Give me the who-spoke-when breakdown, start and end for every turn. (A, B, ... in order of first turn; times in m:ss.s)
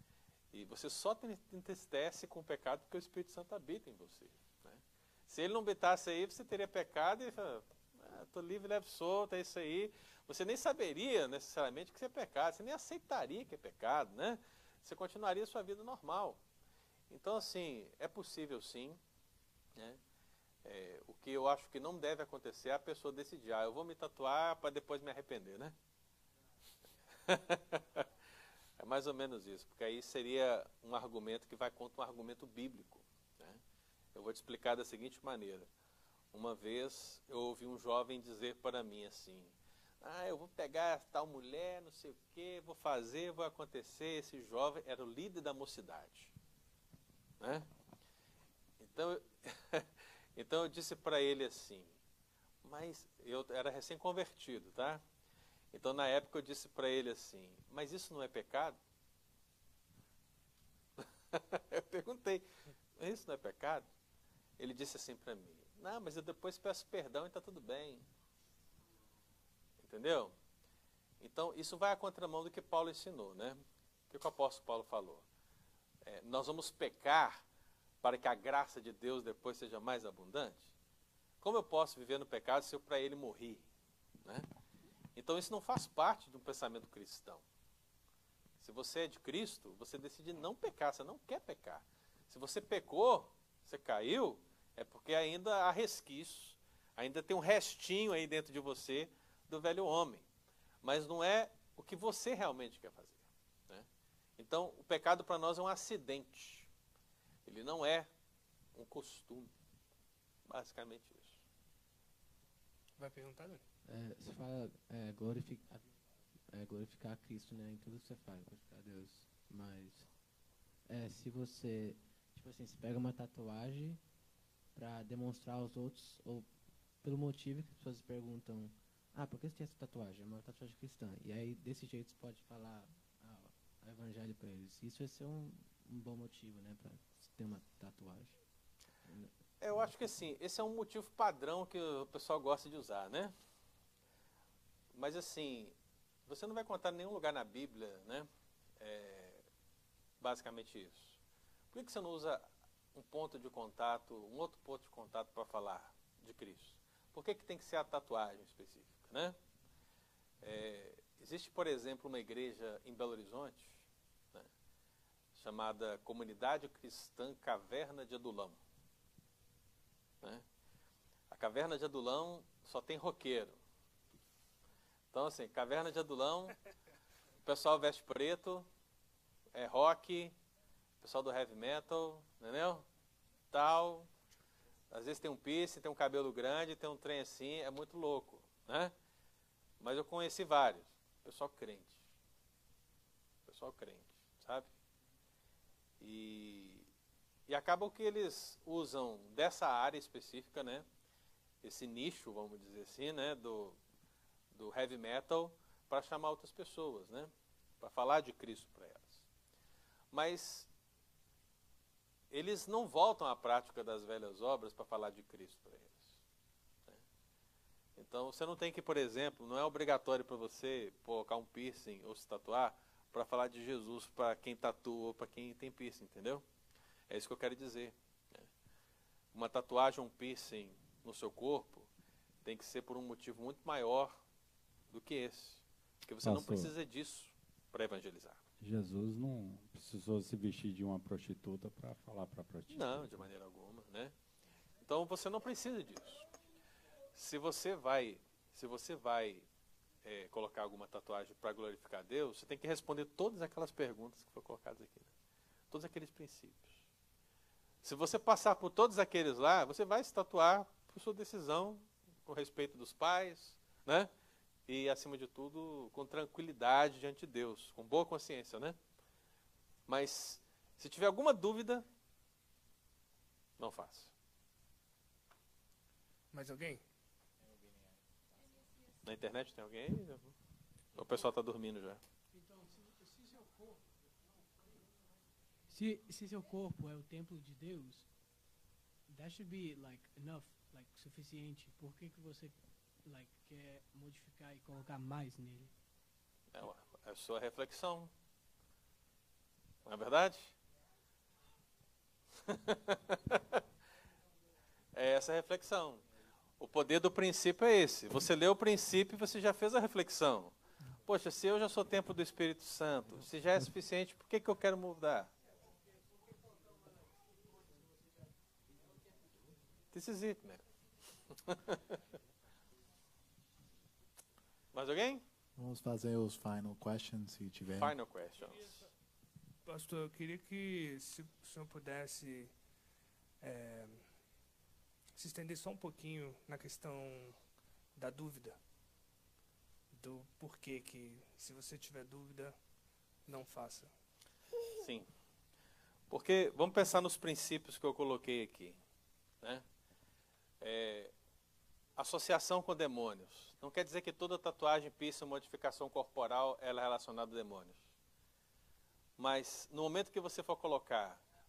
0:00.5-0:16.4 A
0:17.1-0:19.0 A
0:20.6-0:25.7 A
0:27.2-0:28.1 A
0:28.8-0:33.6 A
0:34.1-0:35.7 A
0:36.3-0:46.3 A
0:47.4-0:47.7 A
0:48.8-0:52.0 A
0:52.6-0:55.0 A
0:55.7-0:58.8 A
1:01.0-1:02.4 A
1:03.0-1:03.9 A
1:04.6-1:08.0 A
1:09.8-1:10.3 A
1:11.2-1:13.6 A
1:14.1-1:15.2 A
1:16.0-1:17.4 A
1:18.0-1:20.7 A
1:21.4-1:23.6 A
1:25.2-1:27.4 A
1:28.6-1:40.2 A
1:40.8-1:43.9 A
1:44.4-1:46.7 A
1:47.4-1:48.1 A
1:48.7-1:49.5 A
1:50.5-1:51.4 A
1:53.0-1:53.6 B
1:53.8-2:00.2 C
2:00.8-2:04.1 C
2:04.7-2:18.4 C
2:19.0-2:19.3 C
2:19.6-2:23.3 A
2:24.9-2:25.7 A
2:26.3-2:28.3 A
2:28.8-2:29.4 A
2:30.2-2:31.2 A
2:31.7-2:39.4 A
2:40.4-2:44.5 A
2:45.3-2:48.6 A
2:51.3-2:53.6 A
2:55.1-2:56.6 A
2:57.4-2:58.7 A
2:59.5-3:00.4 A
3:01.0-3:02.8 A
3:03.5-3:04.1 A
3:04.9-3:08.9 A
3:09.8-3:12.0 A
3:13.4-3:14.7 A
3:16.0-3:16.9 A
3:17.5-3:20.8 A
3:21.6-3:23.8 A
3:24.5-3:29.3 A
3:30.1-3:30.7 A
3:32.3-3:36.2 A
3:38.0-3:46.4 A
3:47.1-3:48.5 A
3:49.3-3:51.9 A
3:52.4-3:54.2 A
3:54.9-3:58.4 A
3:56.2-3:56.7 D
3:58.6-4:03.2 D
4:02.7-4:04.1 A
4:04.8-4:06.3 A
4:07.1-4:09.5 A
4:10.0-4:15.1 A
4:15.7-4:16.8 A
4:17.8-4:24.1 A
4:24.7-4:28.8 A
4:29.9-4:31.8 A
4:33.6-4:34.1 A
4:36.3-4:36.8 B
4:37.4-4:38.0 E
4:39.0-4:40.3 A
4:40.9-4:42.0 A
4:42.3-4:43.8 F
4:45.7-4:48.1 F
4:49.1-4:55.7 F
4:56.5-4:58.1 A
4:59.8-5:00.6 A
5:02.4-5:03.6 A
5:04.9-5:06.0 A
5:06.6-5:15.3 A
5:19.9-5:20.6 A
5:21.3-5:22.0 A
5:24.7-5:25.2 A
5:25.6-5:27.9 E
5:27.7-5:28.9 A
5:29.6-5:32.5 B
5:33.4-5:34.1 B
5:35.2-5:37.4 B
5:38.0-5:38.6 B
5:39.9-5:42.6 B
5:43.2-5:43.9 B
5:44.7-5:45.1 A
5:46.1-5:48.8 A
5:50.6-5:51.1 A
5:52.0-5:57.8 A
5:59.2-6:01.2 A